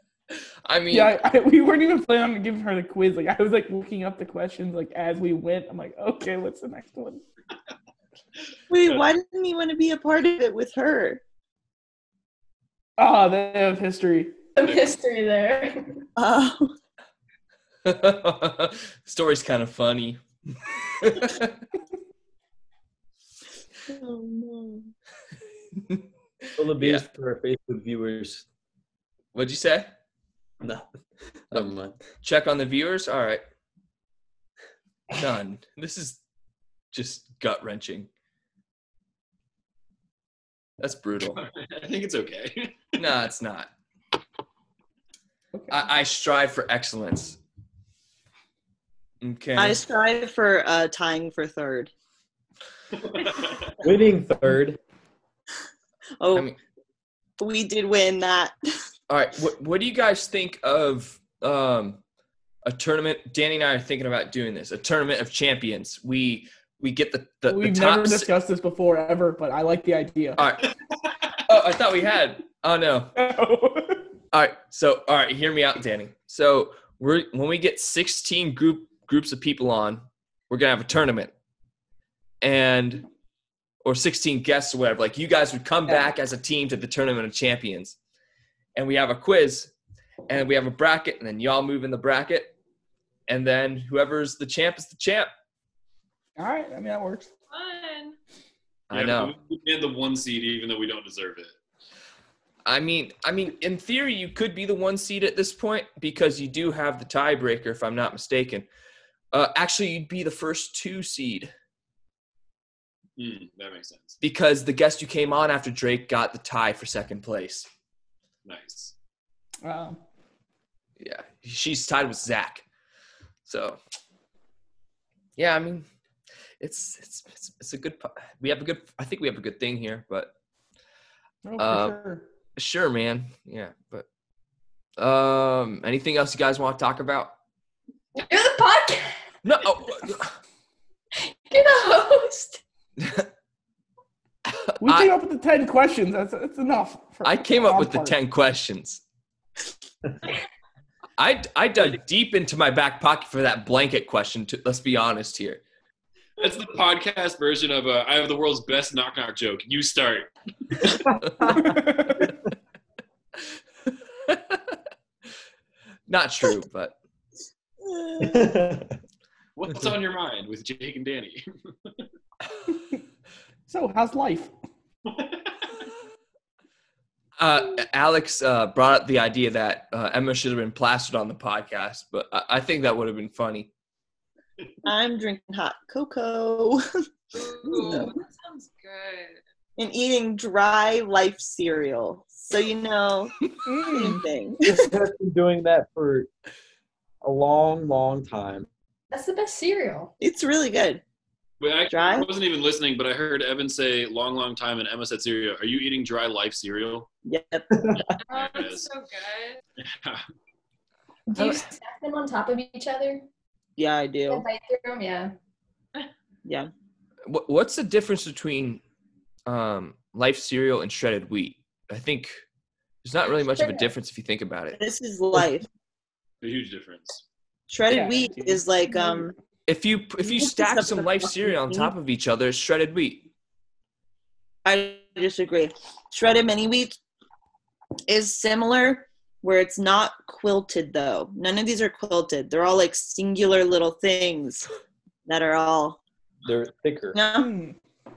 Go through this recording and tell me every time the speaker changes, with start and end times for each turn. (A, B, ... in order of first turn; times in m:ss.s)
0:00.6-0:01.1 A
0:00.9-0:07.2 B
0:08.7-0:11.2 C
0:13.0-0:14.4 B
0:14.6-0:15.9 D
0:16.2-0:16.8 C
0:17.8-0:20.2 A
0:21.0-0:21.6 A
0:23.9-0:24.9 C
0:26.6-0:28.4 E
0:26.8-0:27.0 A
0:29.3-0:29.9 A
0:30.6-0:30.9 E
0:31.5-0:32.0 E
0:31.5-0:33.4 A
0:35.1-0:36.2 A
0:36.9-0:38.1 A
0:40.8-0:41.4 A
0:41.4-0:42.8 F
0:43.0-0:43.7 A
0:45.5-0:45.8 B
0:45.7-0:47.4 A
0:49.2-0:49.8 A
0:49.6-0:51.9 C
0:53.0-0:53.8 F
0:53.8-0:54.8 E
0:56.2-0:56.5 C
0:57.4-0:58.5 C
0:59.1-1:02.0 A
1:02.6-1:08.3 A
1:07.5-1:10.4 B
1:10.4-1:10.7 A
1:11.0-1:11.3 F
1:11.5-1:13.1 A
1:13.2-1:14.0 B
1:14.3-1:21.3 A
1:22.4-1:23.1 A
1:23.8-1:28.0 A
1:28.8-1:29.7 A
1:30.3-1:32.5 A
1:33.3-1:35.3 A
1:36.4-1:37.3 B
1:37.5-1:38.2 G
1:38.9-1:39.3 A
1:38.9-1:41.6 F
1:42.7-1:48.7 A
1:49.3-1:51.5 A
1:53.2-1:54.2 F
1:54.2-1:57.7 A
1:58.4-1:58.9 F
1:59.6-2:00.0 B
2:01.0-2:02.6 A
2:03.5-2:03.8 A
2:05.4-2:05.9 A
2:06.6-2:10.3 A
2:11.4-2:12.2 B
2:11.6-2:12.0 A
2:12.6-2:14.1 A
2:15.0-2:17.3 A
2:18.2-2:19.2 D
2:19.4-2:20.4 A
2:21.2-2:22.6 D
2:23.0-2:23.3 A
2:24.5-2:25.1 A
2:24.8-2:28.2 B
2:27.2-2:29.0 A
2:31.2-2:35.6 A
2:36.4-2:40.3 F
2:41.0-2:41.9 E
2:41.6-2:42.3 B
2:44.3-2:44.8 A
2:46.1-2:47.0 A
2:47.8-2:48.5 C
2:48.2-2:49.0 E
2:49.6-2:52.0 F
2:53.7-2:54.5 B
2:55.1-2:55.5 F
2:57.4-3:03.7 A
3:04.8-3:06.8 C
3:07.3-3:09.4 G
3:07.6-3:08.2 C
3:09.8-3:14.9 C
3:13.6-3:14.2 B
3:14.7-3:16.3 E
3:17.2-3:18.7 E
3:19.1-3:20.1 D
3:20.2-3:21.0 C
3:21.6-3:27.1 F
3:21.9-3:22.3 C
3:27.2-3:27.7 C
3:28.3-3:29.6 G
3:28.3-3:28.9 F
3:29.8-3:30.3 F
3:31.3-3:33.2 D
3:31.4-3:31.7 A
3:33.8-3:34.5 C
3:34.3-3:35.3 D
3:36.4-3:36.7 C
3:37.3-3:38.8 A
3:39.5-3:42.4 A
3:43.0-3:44.8 A
3:43.4-3:43.9 D
3:44.7-3:45.7 C
3:46.4-3:47.2 F
3:47.7-3:49.3 C
3:47.9-3:49.2 B
3:49.7-3:53.3 A
3:50.2-3:51.9 C
3:54.6-3:57.0 C
3:58.1-4:04.7 C
4:05.3-4:06.0 C
4:06.4-4:07.2 E
4:07.1-4:07.6 C
4:07.4-4:07.8 B